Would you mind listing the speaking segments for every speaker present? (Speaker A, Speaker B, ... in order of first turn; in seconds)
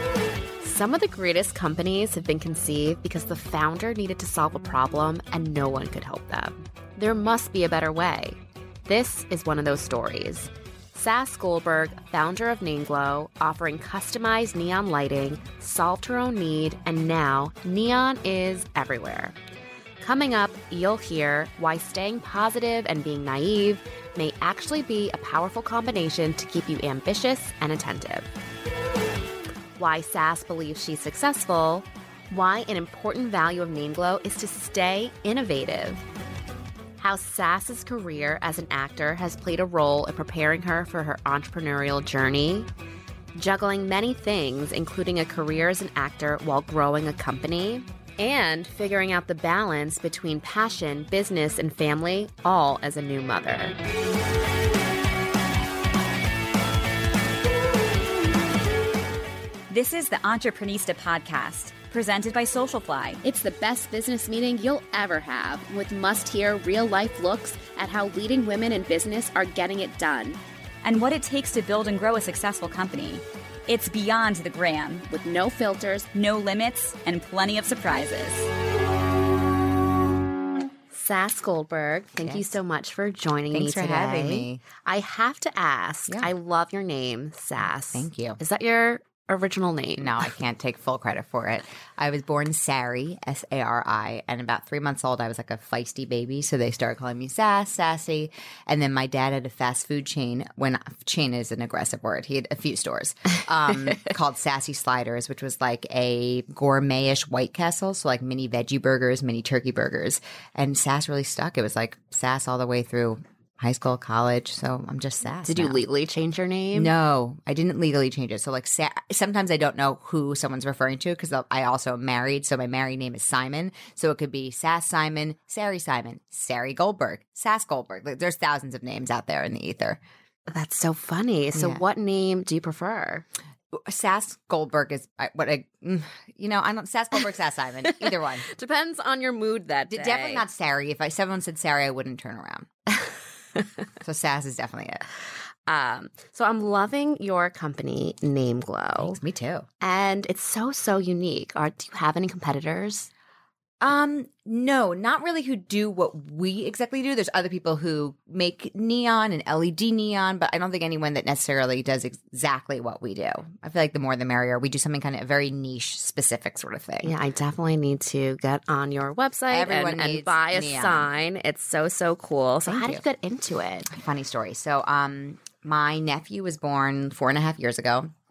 Speaker A: 0.6-19.4, 20.0-28.3, 29.8-36.0, 37.0-42.7, 43.4-53.8, 63.2-70.4, 75.1-76.1, 80.9-90.3, 115.4-116.9, 130.5-133.2, 137.8-140.4, 145.7-149.2, 149.8-153.1, 167.0-173.9
Speaker B: 59.7-63.2, 70.8-75.2, 76.1-78.5
Speaker C: 82.2-82.5, 83.5-84.6, 87.9-88.4, 90.0-115.8, 116.7-130.0, 131.6-131.8, 133.7-138.4, 139.9-142.7, 144.0-145.0, 149.0-149.7, 153.8-167.1, 169.5-171.1, 172.7-173.0, 173.9-178.1